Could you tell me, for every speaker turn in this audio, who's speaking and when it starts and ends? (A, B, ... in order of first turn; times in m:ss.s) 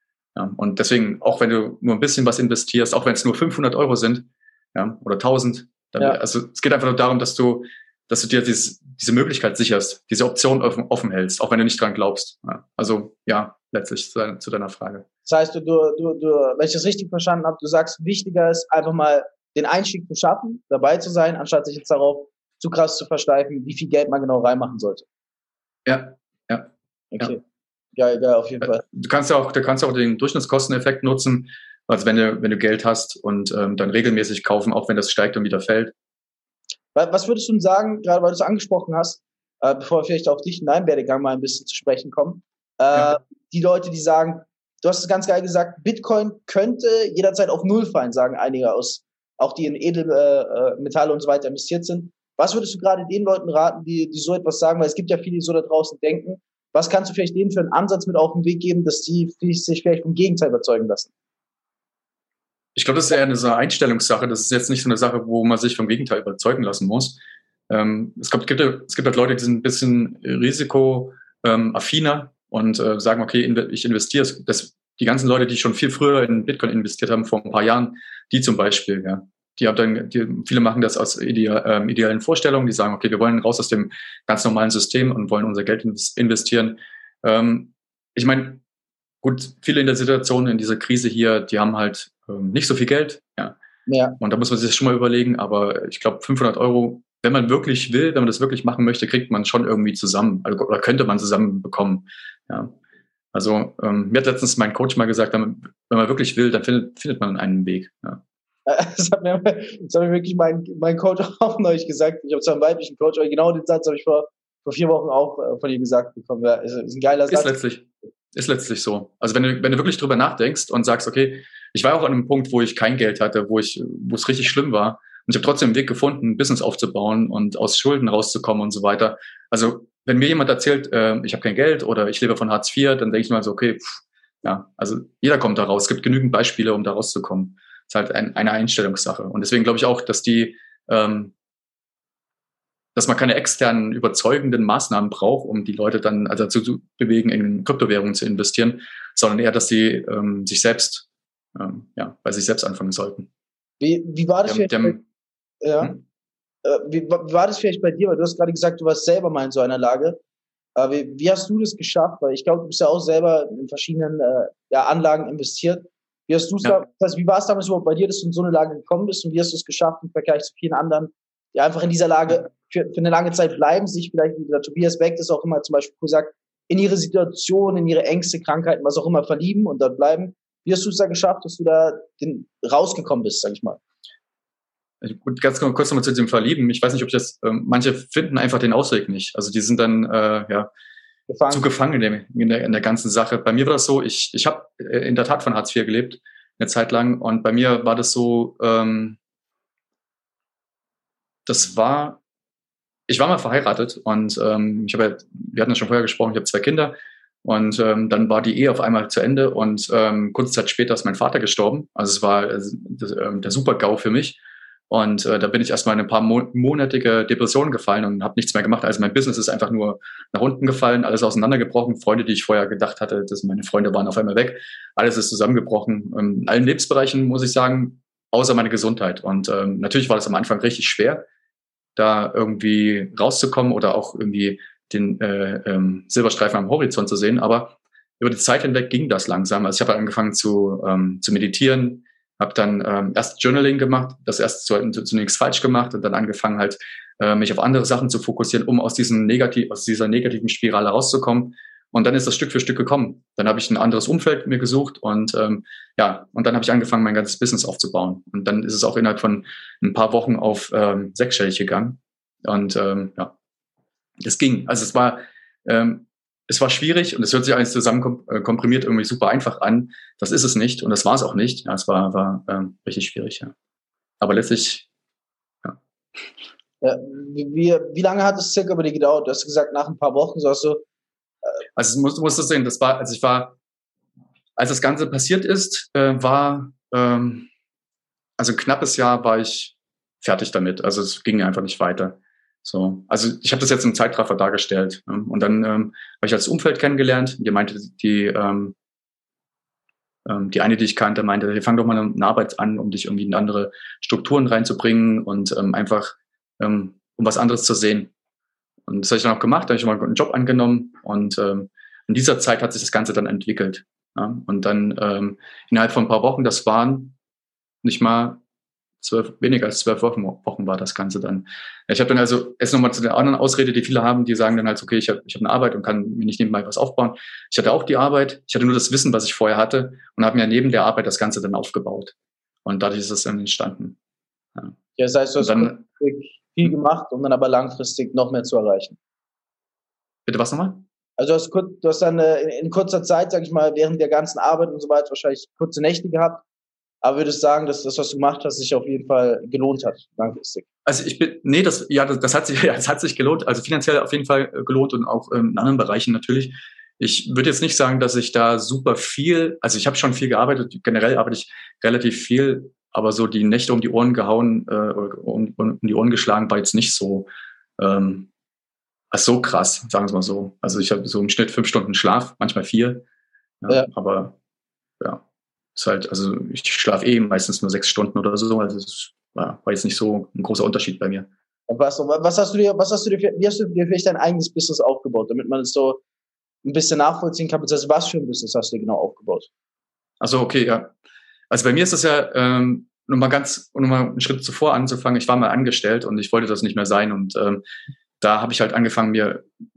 0:00.3-0:15.0 A
0:15.2-0:25.0 B
0:25.8-0:27.3 A
0:27.1-0:27.4 B
0:28.0-0:28.8 B
0:28.6-0:35.9 A
0:36.9-1:01.1 B
1:02.7-1:28.6 A
1:29.2-1:33.6 A
1:33.9-1:34.2 B
1:34.2-1:42.7 A
1:43.3-1:48.2 A
1:48.6-1:57.5 B
1:57.3-2:21.3 A
2:22.9-2:33.3 A
2:33.8-2:35.0 B
2:34.4-2:35.0 A
2:35.6-2:36.0 B
2:36.6-2:40.2 B
2:40.8-3:03.8 B
3:05.0-3:10.7 A
3:11.3-3:11.6 B
3:11.5-3:19.2 A
3:21.4-3:22.2 A
3:23.1-3:34.4 A
3:34.9-3:51.2 A
3:52.0-4:23.3 A
4:24.2-4:33.5 A
4:34.2-4:34.9 A
4:36.8-4:40.8 B
4:41.8-4:43.6 A
4:44.6-4:47.5 A
4:48.4-4:58.8 A
5:00.2-5:08.1 A
5:08.9-5:17.2 A
5:17.8-5:18.4 A
5:19.0-5:32.1 A
5:32.6-5:34.0 A
5:35.0-5:39.0 B
5:35.4-5:35.8 A
5:40.3-5:40.8 A
5:41.2-5:46.4 B
5:47.0-5:50.6 B
5:50.8-6:08.3 A
6:09.1-6:13.0 A
6:13.6-6:14.4 A
6:15.7-6:21.3 A
6:21.7-6:26.0 B
6:26.6-6:29.5 B
6:30.2-6:30.9 A
6:31.5-6:37.6 A
6:38.2-6:39.4 A